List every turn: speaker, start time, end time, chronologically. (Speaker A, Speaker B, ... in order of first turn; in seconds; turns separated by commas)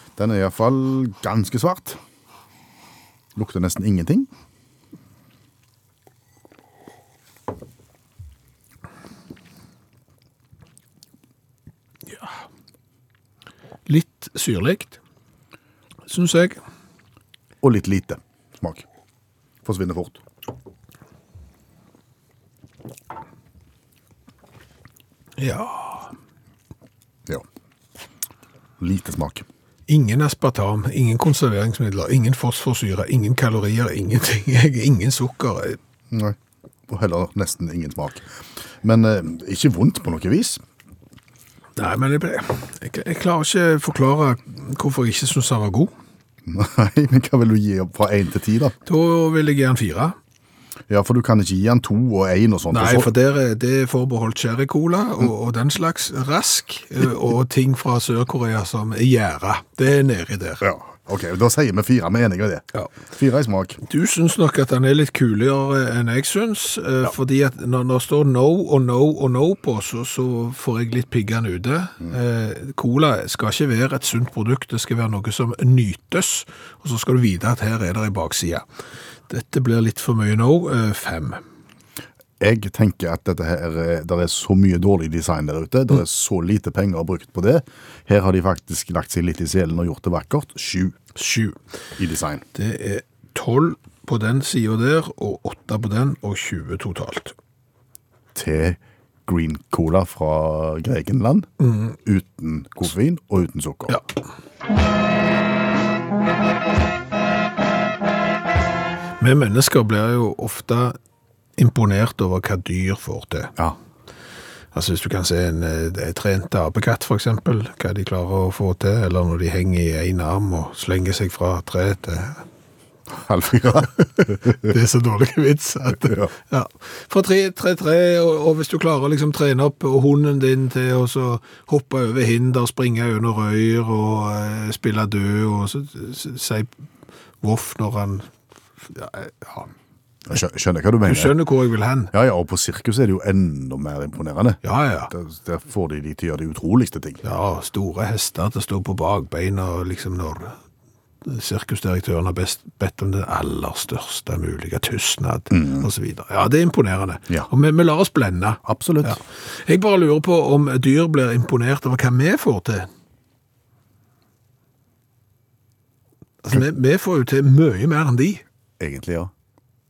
Speaker A: 0.2-2.0, Speaker A: 3.3-4.3, Speaker B: 12.1-12.3, Speaker B: 13.9-15.0, Speaker B: 16.1-16.6, Speaker A: 17.6-18.8, Speaker A: 19.6-20.2, Speaker B: 25.4-26.1, Speaker A: 28.8-29.4, Speaker B: 29.9-35.8, Speaker A: 36.1-36.4, Speaker A: 36.9-38.3, Speaker A: 38.8-40.6, Speaker B: 41.8-45.9, Speaker A: 46.5-48.7, Speaker B: 48.9-50.1, Speaker A: 50.9-53.1, Speaker B: 52.7-60.6, Speaker A: 60.6-63.8, Speaker B: 63.9-78.6, Speaker B: 79.3-81.4, Speaker A: 82.4-91.0, Speaker B: 91.2-91.5, Speaker A: 92.0-92.4, Speaker B: 92.5-97.3, Speaker A: 98.3-101.5, Speaker B: 101.6-101.9, Speaker A: 102.0-104.0, Speaker B: 109.2-110.9, Speaker B: 111.6-113.5, Speaker B: 114.7-122.4, Speaker A: 123.1-124.7, Speaker B: 124.5-136.7, Speaker A: 126.0-126.3, Speaker B: 137.4-138.3, Speaker B: 138.9-139.7, Speaker A: 140.3-141.4, Speaker B: 141.1-142.1, Speaker A: 142.1-147.2, Speaker B: 144.6-145.1, Speaker B: 147.2-150.6, Speaker B: 151.2-162.9, Speaker A: 155.5-155.9, Speaker A: 158.6-159.2, Speaker B: 166.4-168.4, Speaker A: 168.8-169.3